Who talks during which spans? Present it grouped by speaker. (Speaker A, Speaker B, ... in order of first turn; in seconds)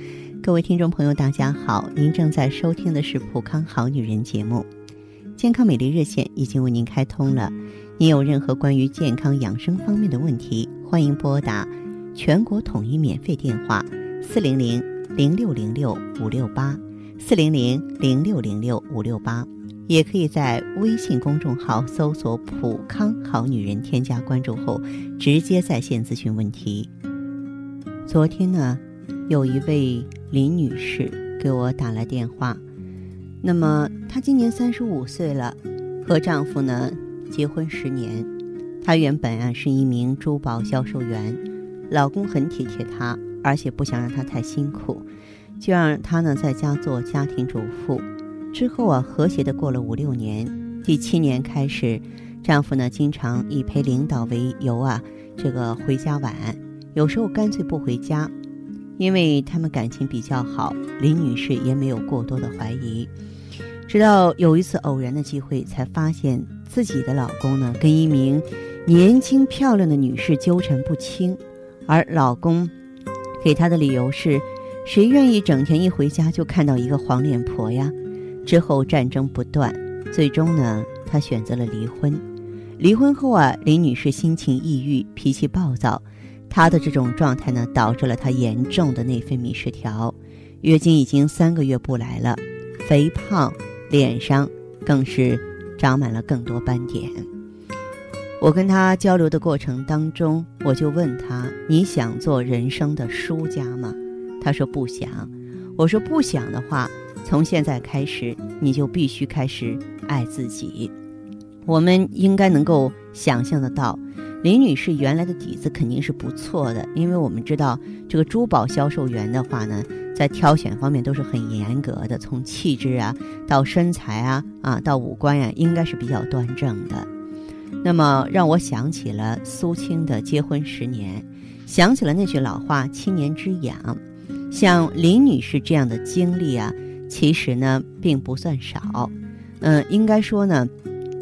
Speaker A: 0.4-4.7, 5.4-26.9, 28.1-32.6, 33.4-38.3, 38.8-45.1, 45.6-58.3, 59.0-63.1, 63.9-72.7, 73.4-77.9, 78.5-82.2, 82.8-97.3, 98.4-110.9, 111.7-127.1, 127.8-134.0, 134.5-140.7